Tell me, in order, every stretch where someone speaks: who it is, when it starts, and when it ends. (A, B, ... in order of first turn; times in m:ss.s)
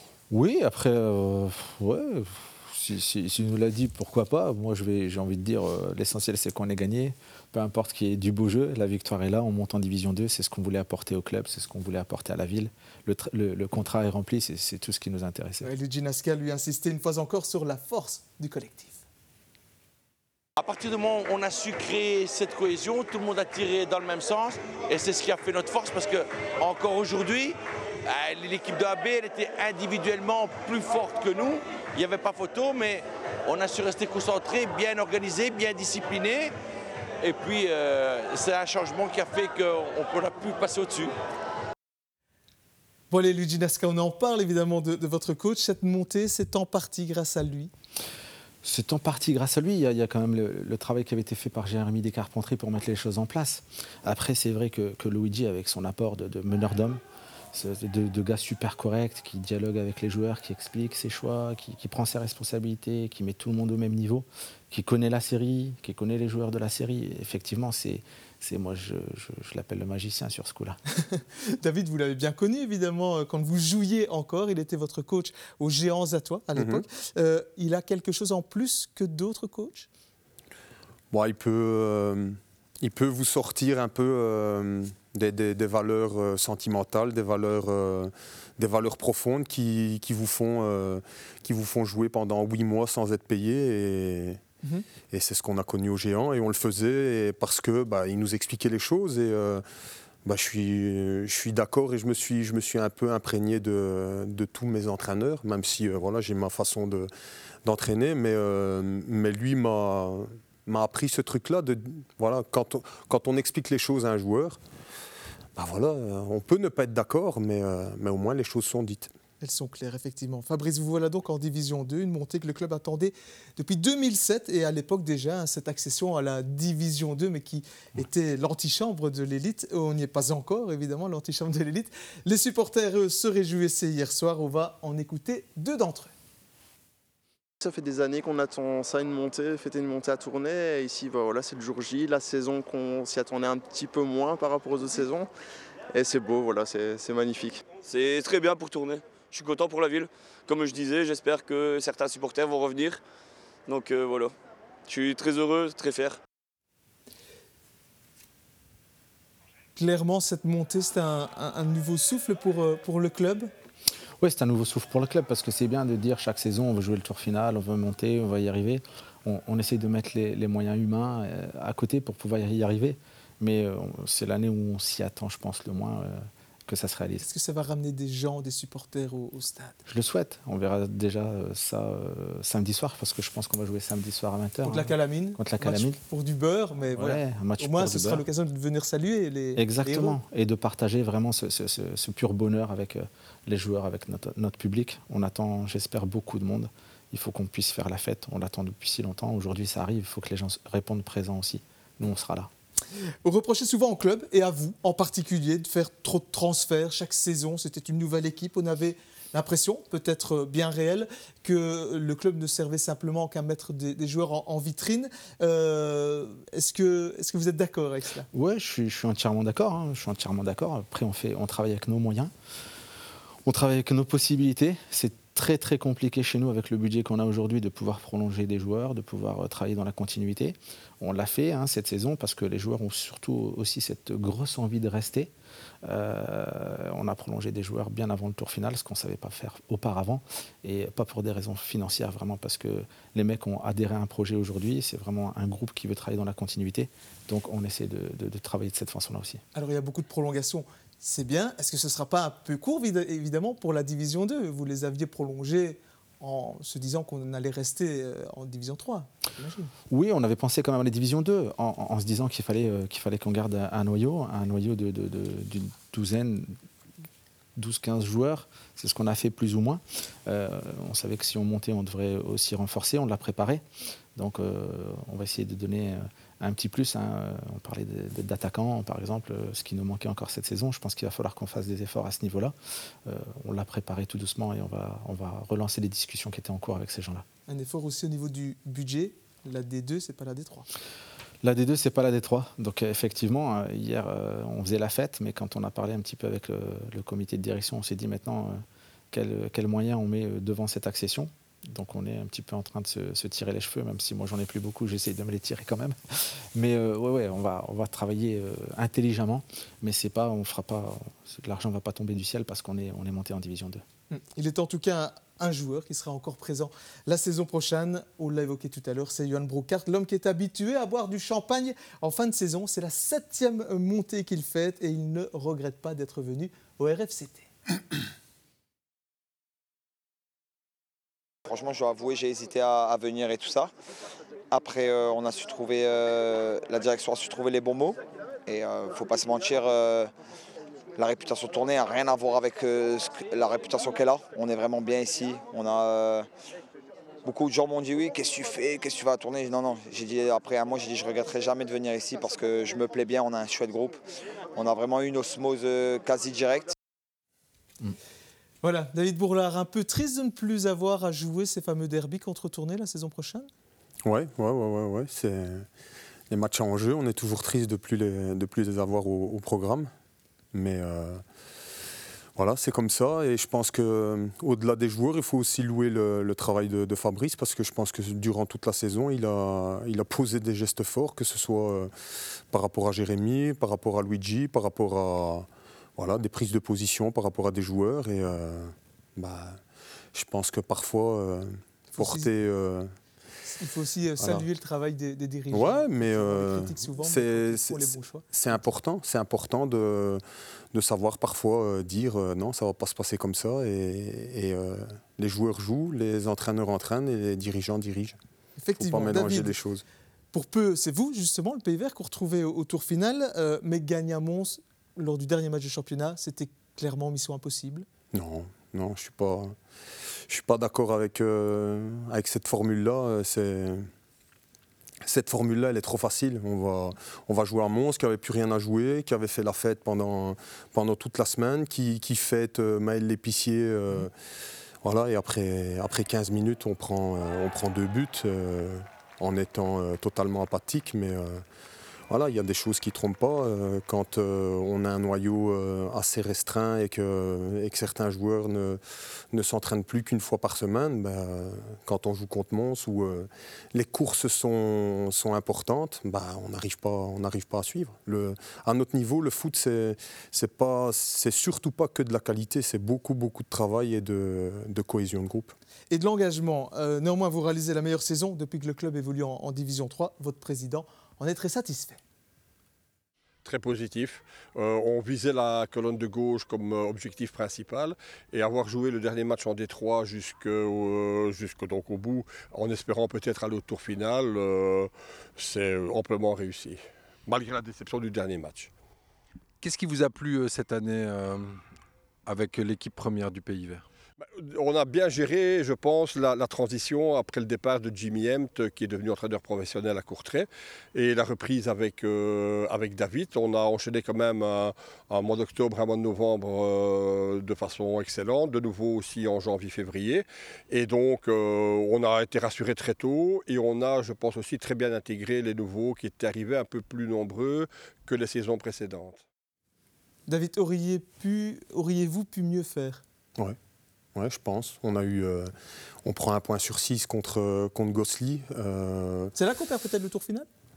0:00.3-0:15.7 A
0:15.6-0:19.0 B
0:20.6-0:36.5 C
0:37.2-0:41.1 C
0:43.1-0:47.7 B
0:48.6-0:57.0 A
0:57.5-1:10.8 A
1:11.1-1:19.9 B
1:16.5-1:16.8 D
1:21.1-1:34.4 D
1:35.1-1:39.6 D
1:40.2-1:47.1 D
1:47.6-1:54.6 D
1:55.6-1:59.1 D
1:59.4-2:16.1 B
2:17.6-2:25.3 E
2:25.9-2:27.6 E
2:27.8-2:33.0 F
2:33.7-2:34.3 F
2:34.9-2:36.2 F
2:39.8-2:43.5 B
2:44.2-2:57.2 A
2:57.2-2:59.8 B
2:59.9-3:06.0 A
3:04.6-3:10.2 B
3:07.0-3:08.2 A
3:09.6-3:22.5 A
3:23.2-3:38.3 B
3:38.3-3:42.3 A
3:43.4-3:55.3 A
3:55.8-4:09.4 A
4:09.5-4:19.7 B
4:19.9-4:26.6 A
4:27.6-4:33.6 A
4:34.2-4:42.5 A
4:43.0-4:47.2 A
4:47.5-4:50.7 B
4:51.4-4:58.6 A
4:59.1-5:13.8 A
5:14.1-5:27.5 B
5:31.4-5:33.7 G
5:34.5-5:40.1 G
5:41.0-5:46.3 G
5:47.2-5:54.0 G
5:54.5-5:56.7 G
5:58.6-6:03.5 B
6:04.0-6:05.7 D
6:06.3-6:09.9 D
6:10.5-6:11.2 D
6:12.4-6:21.9 D
6:22.5-6:29.6 D
6:30.1-6:32.9 D
6:31.9-6:32.3 B
6:33.4-6:38.3 B
6:34.2-6:34.4 D
6:35.5-6:40.2 D
6:40.7-6:48.2 D
6:48.6-6:49.6 B
6:48.8-6:49.8 D
6:50.3-6:57.8 B
6:58.1-6:59.6 D
7:00.3-7:03.9 D
7:05.0-7:14.1 D
7:14.8-7:21.4 D
7:22.1-7:28.8 D
7:29.3-7:45.6 D
7:45.9-7:52.0 B
7:53.4-8:08.7 H
8:09.6-8:11.6 I
8:12.2-8:13.8 I
8:14.2-8:39.2 H
8:40.3-8:43.0 B
8:44.1-8:45.5 D
8:46.0-8:49.3 D
8:49.4-8:50.5 B